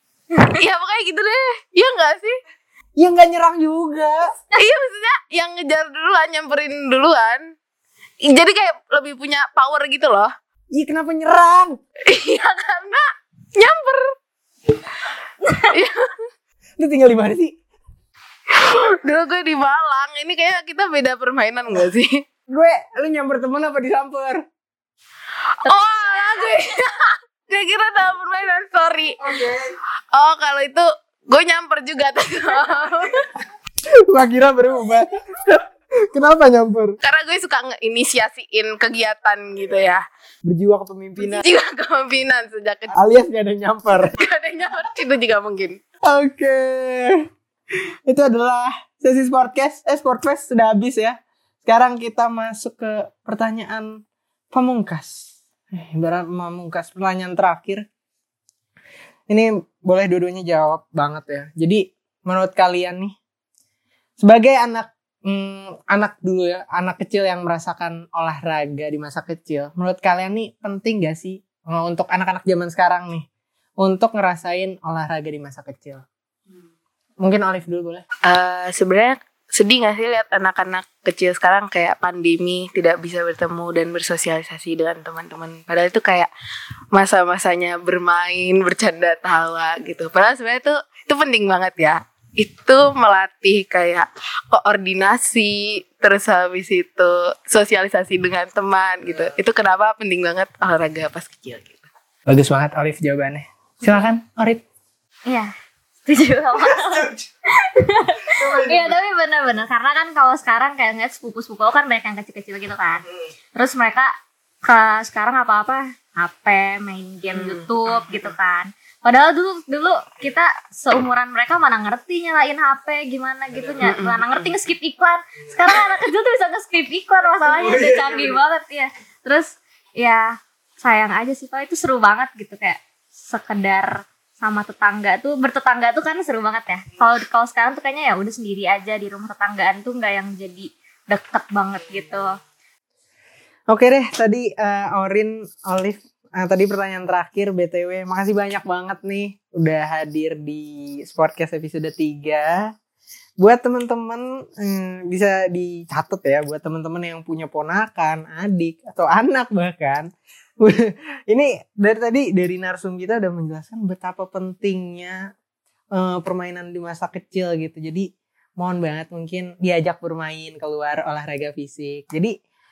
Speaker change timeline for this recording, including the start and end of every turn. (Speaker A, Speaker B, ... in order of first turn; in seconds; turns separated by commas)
Speaker A: 0.3-2.4, Speaker B: 3.0-4.3, Speaker A: 4.5-7.4, Speaker A: 8.2-10.3, Speaker B: 10.7-11.8, Speaker A: 12.1-13.1, Speaker A: 13.6-14.1, Speaker C: 15.5-15.7, Speaker A: 15.6-16.1, Speaker B: 16.8-17.6, Speaker A: 18.5-22.2, Speaker B: 22.5-24.4, Speaker A: 25.6-29.6, Speaker C: 25.7-26.3, Speaker B: 29.2-29.7, Speaker A: 30.1-33.2, Speaker B: 34.1-37.0, Speaker A: 37.0-40.0, Speaker B: 40.4-41.5, Speaker A: 41.2-43.0, Speaker B: 42.9-44.1, Speaker A: 44.0-45.8, Speaker B: 46.0-47.2, Speaker B: 48.1-54.0, Speaker B: 54.5-57.8, Speaker B: 59.3-63.1, Speaker B: 64.2-73.2, Speaker B: 73.8-76.0, Speaker B: 77.2-78.0, Speaker A: 78.3-86.3, Speaker A: 86.9-101.9, Speaker B: 102.3-104.6, Speaker C: 106.1-114.1, Speaker B: 108.4-108.8, Speaker C: 114.7-130.3, Speaker A: 117.3-118.2, Speaker A: 123.8-124.5, Speaker C: 130.8-142.3, Speaker B: 143.7-152.6, Speaker B: 153.4-160.1, Speaker B: 160.6-165.2, Speaker B: 165.9-168.1, Speaker B: 168.6-172.3